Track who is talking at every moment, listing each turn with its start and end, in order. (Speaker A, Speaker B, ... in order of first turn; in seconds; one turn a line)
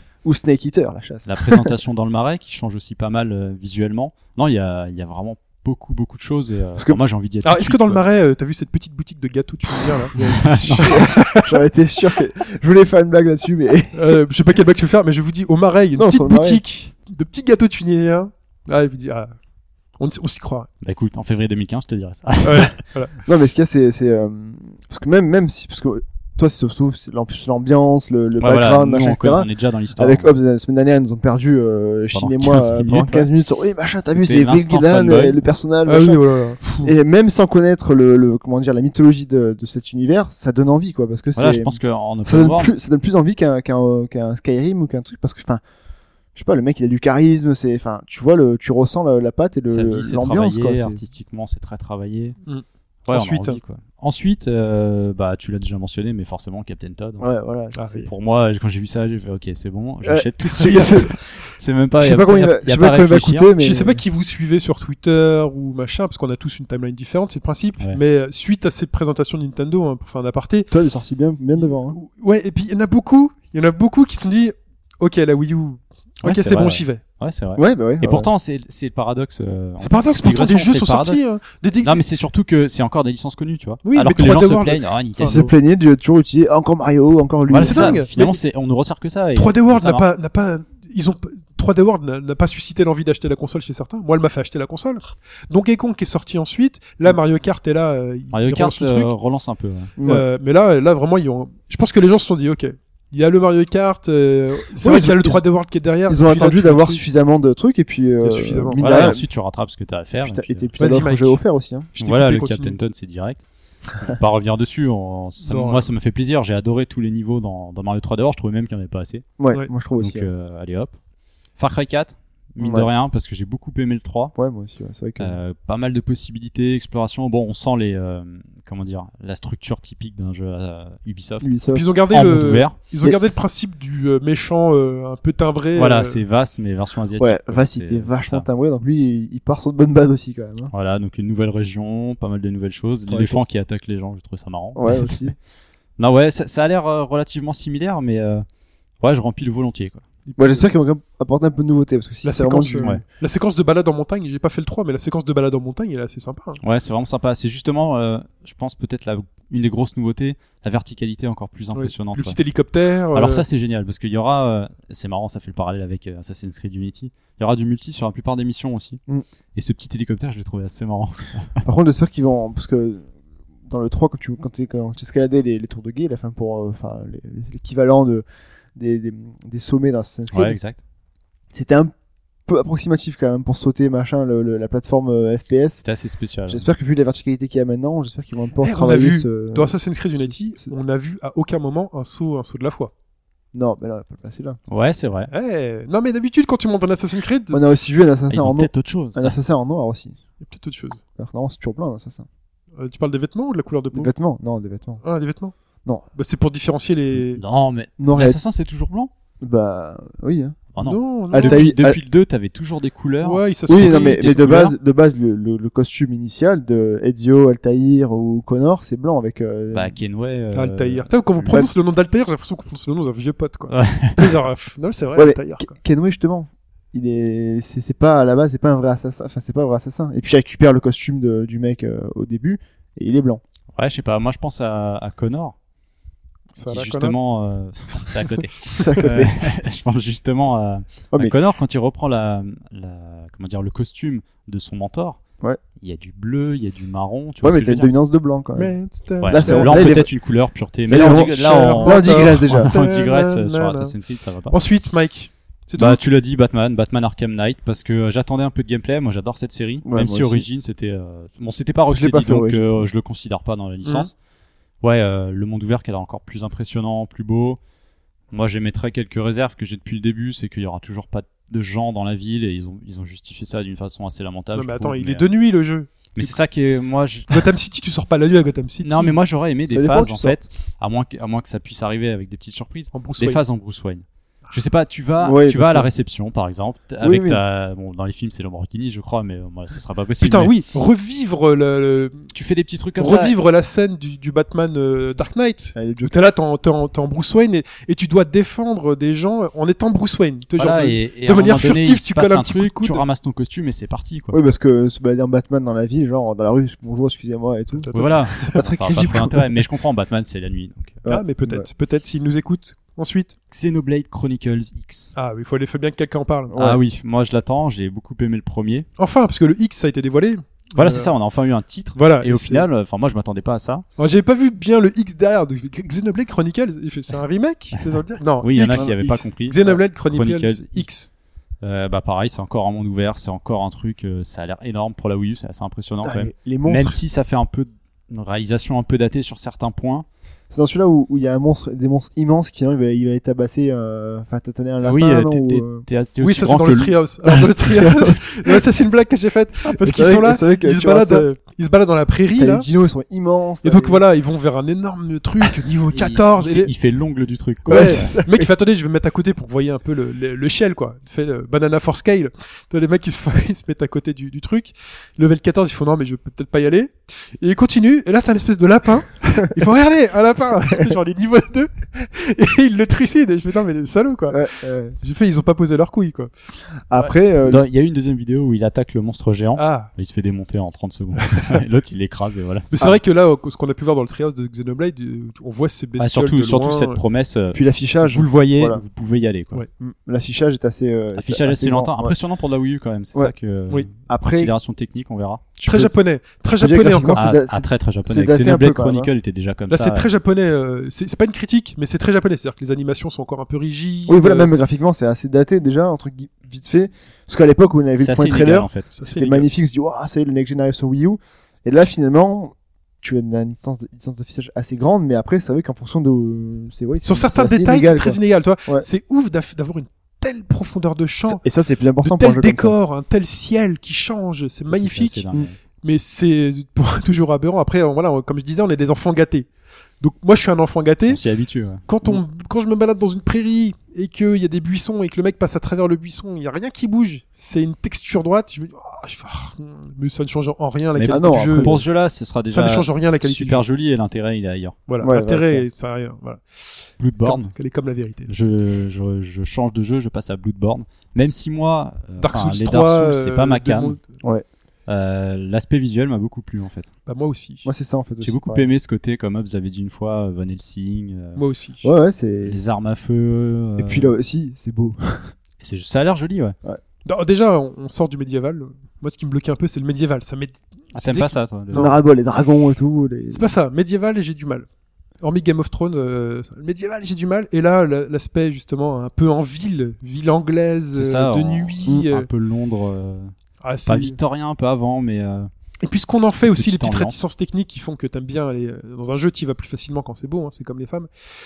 Speaker A: 0.2-1.7
Speaker B: 1.3-8.0
Speaker A: 6.8-7.0
Speaker C: 7.4-11.7
Speaker B: 10.2-11.0
Speaker A: 10.2-14.2
Speaker C: 13.9-19.3
Speaker A: 16.0-16.6
Speaker C: 20.0-20.7
Speaker B: 20.8-22.7
Speaker C: 22.4-23.2
Speaker A: 23.3-36.2
Speaker B: 28.4-30.4
Speaker B: 32.1-33.3
Speaker B: 34.1-35.4
Speaker C: 35.9-36.9
Speaker A: 36.8-45.6
Speaker B: 41.4-42.7
Speaker A: 46.4-51.0
Speaker B: 49.7-52.4
Speaker C: 52.5-53.6
Speaker B: 53.1-57.3
Speaker A: 57.2-58.1
Speaker C: 57.8-58.0
Speaker B: 58.0-63.5
Speaker A: 60.0-61.2
Speaker C: 60.6-61.0
Speaker A: 62.0-64.0
Speaker C: 63.6-70.7
Speaker A: 70.7-72.0
Speaker C: 71.6-77.0
Speaker B: 76.2-81.2
Speaker A: 77.6-78.3
Speaker C: 79.8-82.0
Speaker B: 81.8-85.5
Speaker C: 83.8-85.4
Speaker A: 85.2-88.0
Speaker B: 87.5-90.1
Speaker C: 87.6-88.4
Speaker C: 89.3-99.1
Speaker B: 98.3-99.9
Speaker A: 100.0-100.2
Speaker C: 100.0-107.0
Speaker A: 104.8-105.4
Speaker A: 106.1-109.2
Speaker C: 108.2-109.2
Speaker B: 108.8-110.7
Speaker A: 110.2-111.9
Speaker C: 110.8-111.4
Speaker C: 111.9-112.8
Speaker B: 112.0-113.4
Speaker B: 114.0-119.3
Speaker C: 115.4-115.9
Speaker A: 119.4-120.3
Speaker B: 120.0-120.9
Speaker B: 121.6-124.3
Speaker A: 122.6-122.9
Speaker A: 124.4-125.4
Speaker B: 125.2-132.8
Speaker A: 131.4-131.9
Speaker C: 131.7-136.2
Speaker B: 135.8-138.5
Speaker A: 137.2-140.7
Speaker B: 140.7-145.2
Speaker A: 143.1-143.4
Speaker A: 144.8-145.3
Speaker B: 146.0-148.4
Speaker B: 149.0-150.0
Speaker C: 150.3-150.7
Speaker A: 150.4-153.0
Speaker C: 152.2-156.6
Speaker B: 156.6-162.4
Speaker C: 161.7-163.4
Speaker B: 163.1-169.0
Speaker B: 169.6-171.6
Speaker A: 171.6-173.1
Speaker A: 173.7-180.6
Speaker B: 180.3-180.8
Speaker A: 181.5-181.9
Speaker A: 182.5-185.8
Speaker B: 185.8-186.7
Speaker A: 186.5-189.7
Speaker C: 188.6-192.9
Speaker A: 193.5-194.6
Speaker B: 194.7-195.3
Speaker C: 195.3-197.6
Speaker A: 197.5-200.2
Speaker B: 198.3-199.4
Speaker C: 200.4-201.0
Speaker A: 201.2-202.3
Speaker C: 202.8-204.1
Speaker A: 203.9-205.0
Speaker C: 205.0-205.5
Speaker C: 206.2-207.4
Speaker B: 207.3-209.1
Speaker A: 208.0-208.4
Speaker A: 209.4-210.7
Speaker B: 210.7-214.7
Speaker C: 210.8-211.7
Speaker A: 211.3-212.0
Speaker C: 213.2-214.7
Speaker A: 213.7-219.9
Speaker B: 219.7-221.6
Speaker C: 220.5-225.8
Speaker A: 221.4-221.7
Speaker B: 223.7-224.3
Speaker A: 225.2-233.4
Speaker B: 233.8-235.6
Speaker C: 236.6-237.2
Speaker B: 236.7-245.2
Speaker A: 238.8-239.4
Speaker B: 245.8-247.9
Speaker A: 247.4-250.1
Speaker C: 248.6-250.0
Speaker B: 249.2-254.6
Speaker A: 250.9-252.7
Speaker C: 250.9-253.9
Speaker C: 254.5-256.0
Speaker B: 255.8-264.1
Speaker A: 259.9-260.5
Speaker A: 261.9-262.9
Speaker C: 263.8-264.1
Speaker B: 264.8-267.6
Speaker B: 268.3-275.3
Speaker C: 274.6-276.4
Speaker B: 276.1-277.5
Speaker C: 277.3-279.2
Speaker B: 278.8-290.5
Speaker A: 279.7-280.4
Speaker C: 282.9-283.4
Speaker A: 285.2-285.9
Speaker A: 287.0-287.4
Speaker C: 290.2-292.3
Speaker B: 292.3-293.4
Speaker C: 293.0-303.0
Speaker A: 295.8-296.2
Speaker B: 300.6-304.4
Speaker A: 304.3-309.5
Speaker C: 307.8-308.6
Speaker B: 307.9-311.0
Speaker A: 311.1-311.7
Speaker C: 311.1-313.4
Speaker B: 313.5-315.1
Speaker C: 315.1-316.6
Speaker A: 316.5-316.8
Speaker B: 316.6-318.9
Speaker C: 319.0-321.1
Speaker B: 320.8-323.9
Speaker C: 321.9-322.7
Speaker C: 324.0-331.1
Speaker B: 328.4-330.9
Speaker A: 328.7-329.3
Speaker B: 331.6-340.1
Speaker A: 336.0-337.0
Speaker A: 340.5-345.9
Speaker B: 344.8-347.0
Speaker C: 346.2-352.7
Speaker A: 347.3-348.6
Speaker A: 349.8-351.3
Speaker A: 352.4-354.0
Speaker C: 353.6-356.7
Speaker B: 355.9-358.1
Speaker A: 357.7-358.5
Speaker C: 357.7-374.5
Speaker A: 374.3-374.9
Speaker C: 375.0-376.3
Speaker A: 376.9-377.6
Speaker B: 377.4-382.9
Speaker C: 379.6-379.9
Speaker C: 382.7-387.0
Speaker B: 386.0-389.6
Speaker A: 387.5-388.8
Speaker A: 389.8-392.2
Speaker B: 391.1-395.5
Speaker A: 394.1-394.5
Speaker A: 395.6-395.9
Speaker C: 395.6-397.3
Speaker A: 396.6-399.1
Speaker B: 397.2-400.1
Speaker C: 399.7-404.5
Speaker A: 404.1-418.9
Speaker B: 408.0-408.9
Speaker C: 409.0-409.5
Speaker C: 417.0-421.4
Speaker A: 421.2-422.8
Speaker C: 422.0-425.3
Speaker B: 424.7-425.6
Speaker C: 425.8-429.5
Speaker C: 430.0-431.2
Speaker B: 431.1-431.8
Speaker C: 431.9-441.8
Speaker B: 440.9-444.8
Speaker A: 441.1-441.8
Speaker C: 442.5-443.6
Speaker C: 444.9-448.5
Speaker A: 445.0-445.7
Speaker B: 447.0-447.5
Speaker B: 448.3-454.0
Speaker C: 452.2-454.1
Speaker B: 454.9-456.9
Speaker C: 457.1-457.7
Speaker A: 457.6-458.7
Speaker B: 458.2-461.4
Speaker C: 461.4-461.9
Speaker A: 461.8-462.6
Speaker B: 462.4-464.1
Speaker A: 463.8-465.3
Speaker B: 465.6-466.6
Speaker C: 467.1-472.0
Speaker B: 470.9-471.9
Speaker A: 471.7-473.5
Speaker C: 473.3-474.7
Speaker C: 475.2-482.3
Speaker B: 480.9-483.3
Speaker C: 483.6-484.2
Speaker B: 483.9-485.5
Speaker C: 485.8-491.1
Speaker B: 486.4-487.2